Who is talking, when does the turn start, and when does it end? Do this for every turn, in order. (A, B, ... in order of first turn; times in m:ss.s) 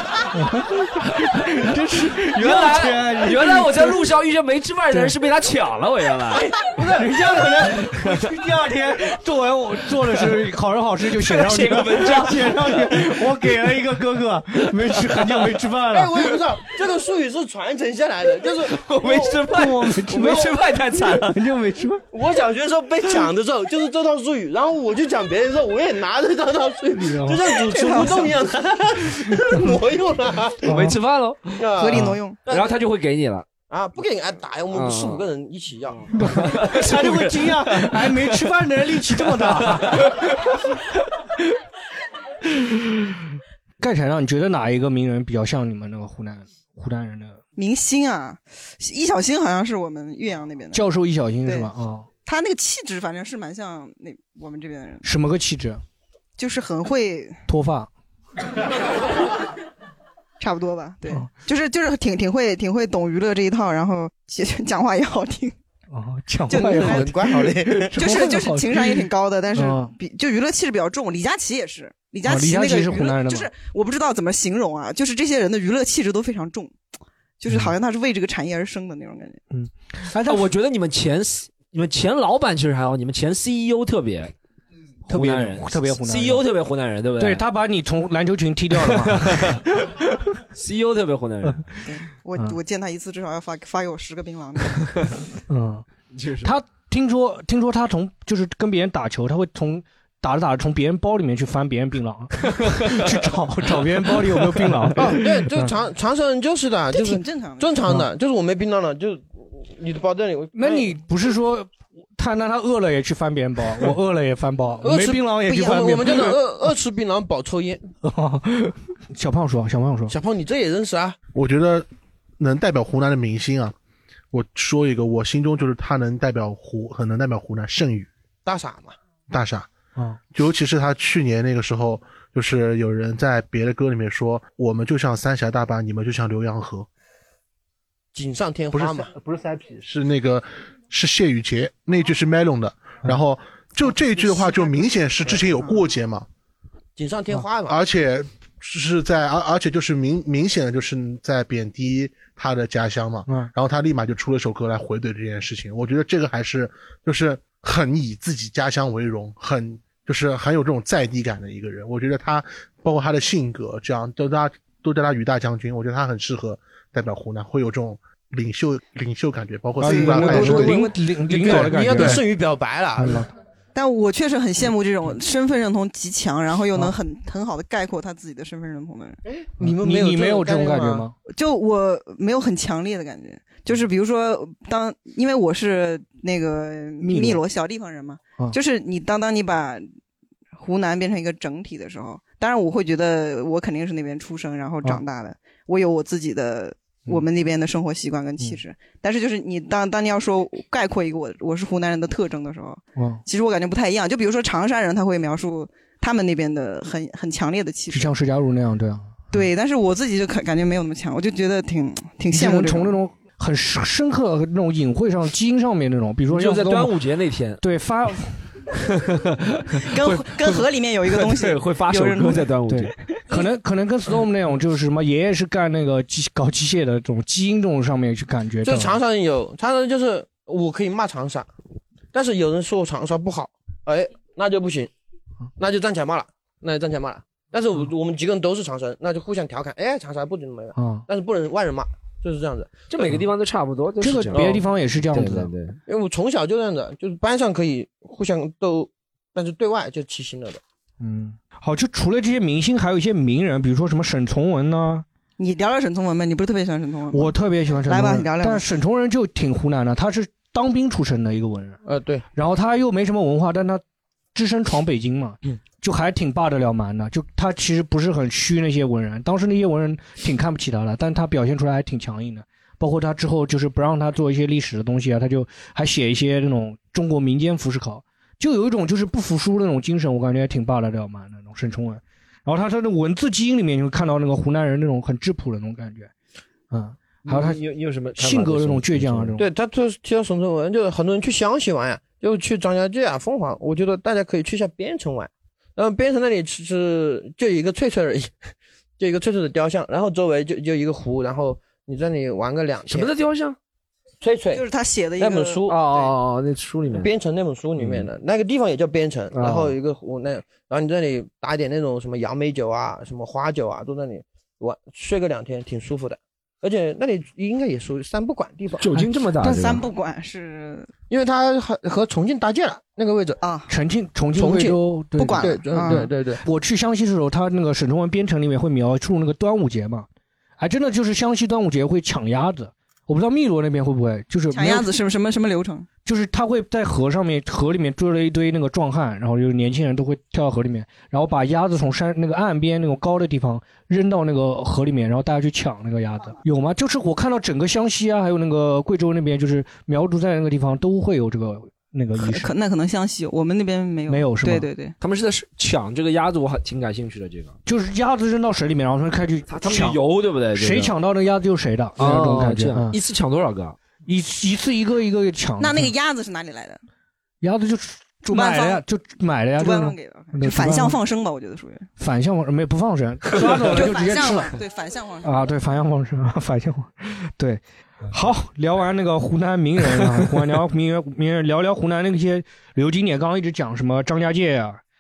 0:00.3-0:04.1 A
0:01.2-0:01.5 B
0:02.1-0:06.5 B
0:06.3-0:16.3 A
0:07.8-0:08.2 B
0:11.1-0:13.4 B
0:14.8-0:15.6 B
0:15.9-0:19.5 C
0:18.7-0:21.4 B
0:19.5-0:22.0 A
0:22.1-0:30.7 C
0:27.0-0:27.4 A
0:27.7-0:28.2 D
0:29.3-0:29.7 A
0:30.6-0:31.6 B
0:30.6-0:31.0 A
0:31.6-0:32.8 C
0:31.8-0:32.4 D
0:31.9-0:32.2 A
0:32.5-0:33.5 B
0:33.7-0:36.1 C
0:34.7-0:35.2 B
0:36.1-0:40.2 A
0:36.2-0:38.5 B
0:39.1-0:40.3 B
0:43.8-0:47.4 A
0:47.6-0:50.8 D
0:50.7-0:52.1 A
0:51.4-0:51.7 D
0:52.2-0:55.1 D
0:55.0-0:55.8 A
0:56.4-0:57.4 D
0:57.5-0:57.9 A
1:00.4-1:05.6 D
1:05.9-1:09.9 A
1:06.5-1:07.1 D
1:06.5-1:08.0 C
1:08.0-1:16.8 D
1:12.2-1:13.5 A
1:17.4-1:19.4 D
1:17.5-1:17.7 A
1:19.5-1:20.5 A
1:20.3-1:24.3 B
1:25.1-1:26.4 A
1:25.1-1:27.4 B
1:27.2-1:29.6 A
1:28.8-1:31.7 B
1:31.8-1:34.8 D
1:35.5-1:35.9 A
1:36.1-1:36.5 B
1:36.4-1:45.7 A
1:42.6-1:43.1 B
1:44.3-1:44.9 B
1:45.0-1:50.9 C
1:46.9-1:47.7 D
1:50.6-1:56.4 A
1:54.8-1:57.9 C
1:58.0-2:00.1 A
2:00.1-2:01.2 C
2:01.3-2:01.9 E
2:02.4-2:03.8 E
2:04.3-2:08.1 E
2:08.4-2:09.0 C
2:09.3-2:09.7 E
2:10.3-2:16.9 E
2:18.1-2:19.1 C
2:18.7-2:26.3 E
2:24.2-2:24.7 D
2:27.0-2:27.8 C
2:27.7-2:50.9 E
2:33.3-2:33.5 A
2:49.8-2:52.3 A
2:49.8-2:53.3 C
2:51.5-2:52.2 E
2:53.0-2:53.3 A
2:53.8-2:59.2 D
2:59.3-3:01.1 C
2:59.6-3:01.2 A
3:01.3-3:09.9 D
3:07.0-3:07.4 A
3:10.6-3:28.1 D
3:23.0-3:23.2 A
3:27.9-3:29.5 A
3:29.3-3:33.0 D
3:32.3-3:37.0 A
3:36.3-3:37.6 B
3:37.6-3:38.4 A
3:39.0-3:40.6 B
3:39.9-3:42.4 D
3:41.1-3:43.0 B
3:42.7-3:49.0 A
3:48.6-3:51.5 C
3:52.1-3:54.9 C
3:55.6-4:03.1 C
4:00.8-4:01.0 A
4:02.9-4:05.8 B
4:04.0-4:05.5 A
4:05.9-4:10.6 C
4:11.0-4:15.1 A
4:15.4-4:18.7 D
4:17.1-4:21.8 A
4:21.8-4:22.2 C
4:22.4-4:23.8 A
4:24.3-4:46.1 A
4:46.7-4:47.6 A
4:47.2-4:49.4 B
4:48.2-4:49.4 A
4:49.4-4:58.4 C
4:59.0-5:03.1 C
5:02.9-5:03.6 B
5:04.2-5:04.6 C
5:04.5-5:05.7 D
5:05.2-5:06.0 C
5:05.7-5:07.1 B
5:06.9-5:18.9 C
5:07.8-5:08.1 B
5:09.3-5:09.8 B
5:18.8-5:19.8 B
5:19.4-5:20.9 D
5:21.1-5:23.4 C
5:23.4-5:23.7 D
5:23.7-5:30.1 A
5:24.4-5:24.8 C
5:25.2-5:26.1 D
5:25.3-5:26.4 C
5:30.6-5:34.9 A
5:34.5-5:35.9 D
5:36.1-5:52.5 A
5:52.2-5:55.0 D
5:54.1-5:54.7 A
5:55.0-5:57.6 B
5:57.7-6:00.0 A
5:59.5-6:00.9 B
6:00.5-6:03.0 A
6:02.0-6:03.8 B
6:04.1-6:05.9 A
6:05.6-6:06.8 D
6:07.4-6:11.0 A
6:08.3-6:08.8 D
6:09.6-6:11.9 D
6:12.0-6:14.6 A
6:13.7-6:15.4 D
6:15.2-6:24.8 A